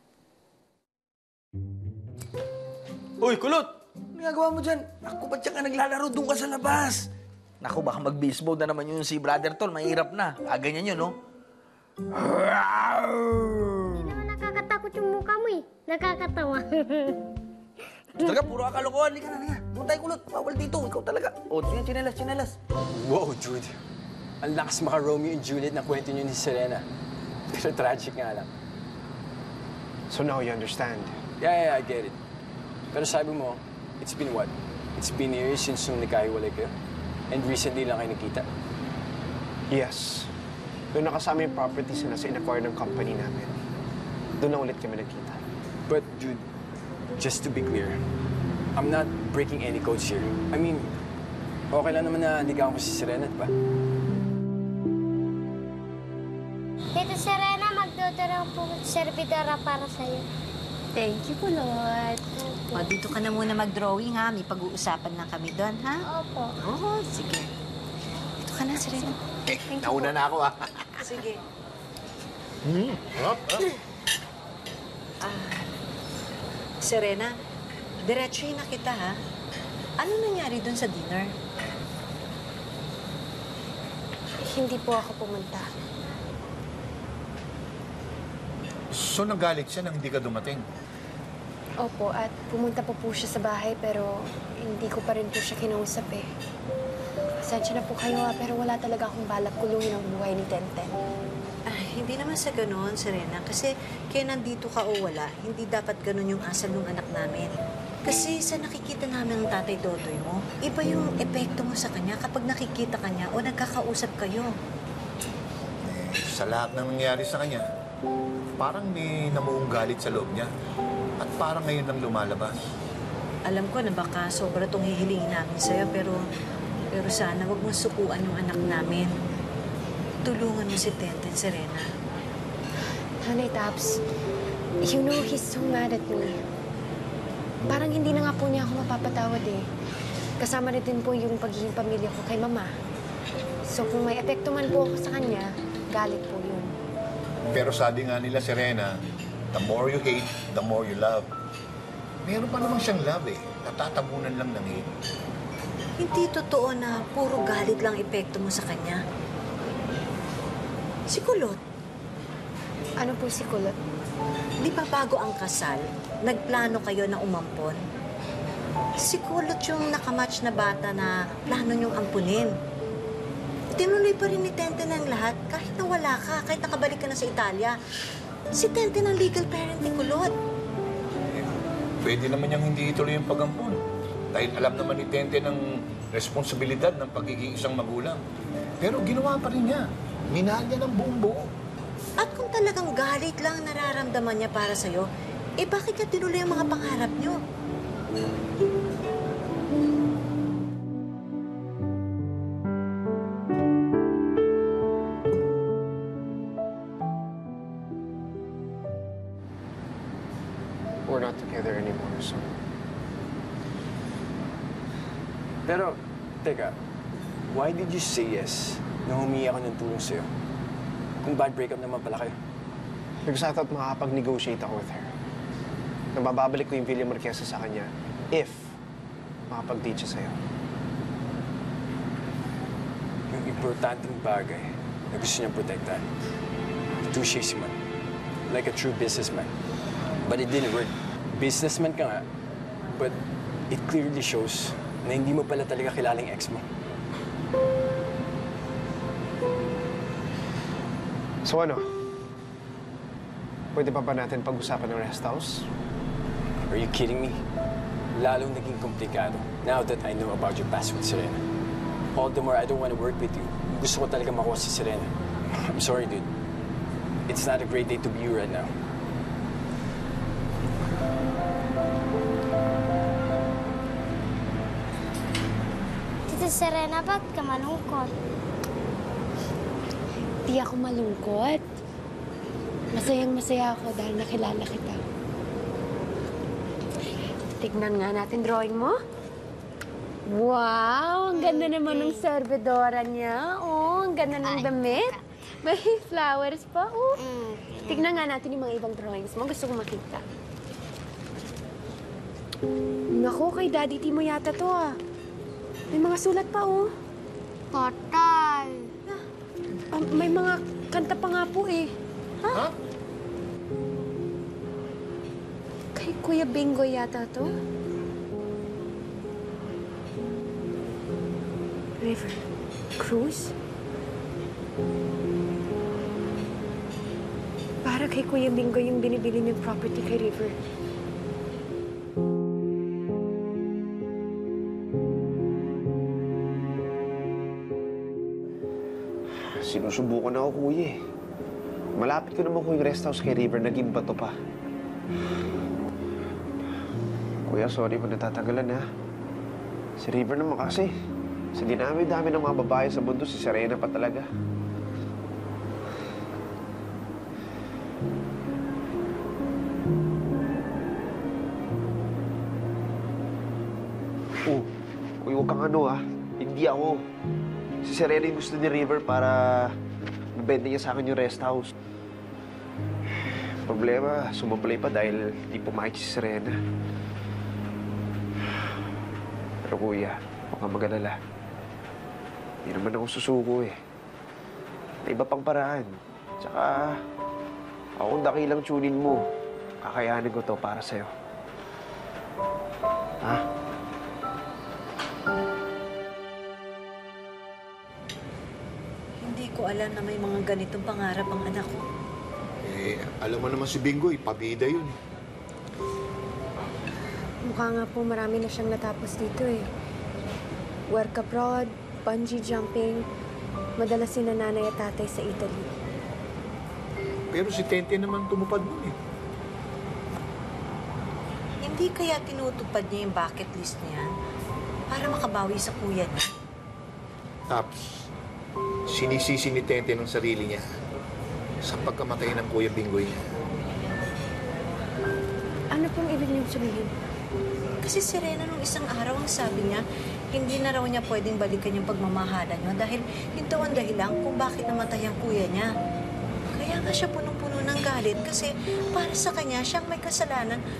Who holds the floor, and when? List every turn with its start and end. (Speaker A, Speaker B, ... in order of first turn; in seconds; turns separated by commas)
Speaker A: 3.2-7.1, Speaker A: 7.6-11.1, Speaker A: 12.1-13.8, Speaker B: 13.9-17.2, Speaker A: 18.2-22.5, Speaker C: 22.9-23.8, Speaker C: 24.4-26.9, Speaker C: 27.5-28.5, Speaker D: 30.1-31.2, Speaker C: 31.4-32.2, Speaker C: 32.9-36.7, Speaker C: 37.3-38.5, Speaker D: 39.7-40.3, Speaker D: 40.9-43.5, Speaker D: 44.4-45.4, Speaker C: 45.9-46.5, Speaker C: 47.1-48.0, Speaker C: 48.7-50.9, Speaker C: 51.7-53.5, Speaker B: 56.9-60.2, Speaker E: 60.9-62.8, Speaker F: 62.7-66.0, Speaker B: 66.1-66.5, Speaker F: 66.6-67.5, Speaker F: 68.4-69.2, Speaker G: 69.5-70.7, Speaker E: 69.7-70.1, Speaker F: 71.0-71.4, Speaker G: 72.6-73.7, Speaker F: 75.2-75.6, Speaker F: 76.8-77.3, Speaker F: 78.0-79.2, Speaker F: 80.0-81.3, Speaker E: 84.4-85.7, Speaker G: 88.9-90.6, Speaker E: 91.8-96.3, Speaker E: 97.4-100.9, Speaker F: 101.7-107.5, Speaker F: 108.0-114.5, Speaker G: 115.8-117.6, Speaker G: 118.6-120.5, Speaker G: 121.2-122.5, Speaker F: 123.5-126.2, Speaker F: 126.9-129.1, Speaker F: 130.2-131.9, Speaker E: 133.2-133.9, Speaker E: 134.8-136.3, Speaker E: 137.7-139.6, Speaker E: 140.4-142.7, Speaker E: 143.7-146.7, Speaker G: 147.5-148.9, Speaker G: 149.5-151.3, Speaker G: 152.2-154.9, Speaker F: 156.0-159.0, Speaker F: 161.1-161.6, Speaker E: 163.0-163.7, Speaker F: 164.6-167.8, Speaker F: 169.0-172.5, Speaker F: 173.8-177.8, Speaker F: 178.6-180.3, Speaker G: 182.0-183.8, Speaker G: 184.3-188.2, Speaker G: 188.8-191.5, Speaker F: 192.2-195.1, Speaker F: 195.6-197.4, Speaker D: 211.1-212.5, Speaker C: 215.6-216.8, Speaker C: 217.4-220.3, Speaker C: 221.2-222.4, Speaker D: 223.3-225.1, Speaker D: 226.1-228.8, Speaker D: 229.5-230.4, Speaker C: 233.3-236.1, Speaker C: 237.0-237.8, Speaker C: 238.5-239.5, Speaker C: 240.2-242.2, Speaker C: 242.9-246.7, Speaker D: 251.4-251.9, Speaker D: 253.7-255.7, Speaker C: 256.7-257.4, Speaker C: 258.1-261.4, Speaker C: 262.1-266.3, Speaker C: 267.3-268.7, Speaker B: 276.3-278.1, Speaker E: 280.4-281.6, Speaker E: 282.9-285.0, Speaker E: 287.6-289.0, Speaker E: 290.3-297.2, Speaker B: 291.3-292.2, Speaker B: 294.4-295.0, Speaker B: 297.2-298.1, Speaker E: 297.9-300.2, Speaker E: 303.2-305.0, Speaker E: 305.9-306.9, Speaker B: 307.7-308.9, Speaker E: 309.9-311.9, Speaker E: 315.9-317.5, Speaker E: 322.0-322.4, Speaker E: 323.0-323.5, Speaker E: 327.8-330.6, Speaker D: 339.3-341.0, Speaker D: 341.9-344.4, Speaker D: 347.4-348.8, Speaker D: 350.0-350.9, Speaker D: 351.5-354.3, Speaker D: 365.2-367.0, Speaker D: 367.8-369.8, Speaker D: 370.4-371.7, Speaker D: 373.6-376.6, Speaker D: 379.6-381.2, Speaker D: 382.6-383.8, Speaker D: 385.0-387.0, Speaker D: 388.0-389.2, Speaker D: 389.8-391.1, Speaker F: 399.2-401.8, Speaker G: 402.6-404.9, Speaker E: 407.4-409.6, Speaker E: 410.9-413.0, Speaker E: 413.8-415.7, Speaker G: 417.3-418.9, Speaker F: 421.6-424.1, Speaker F: 424.9-426.3, Speaker G: 427.5-427.8, Speaker G: 428.9-430.6, Speaker G: 431.6-433.2, Speaker E: 435.7-436.9, Speaker F: 437.8-445.7, Speaker F: 446.6-450.6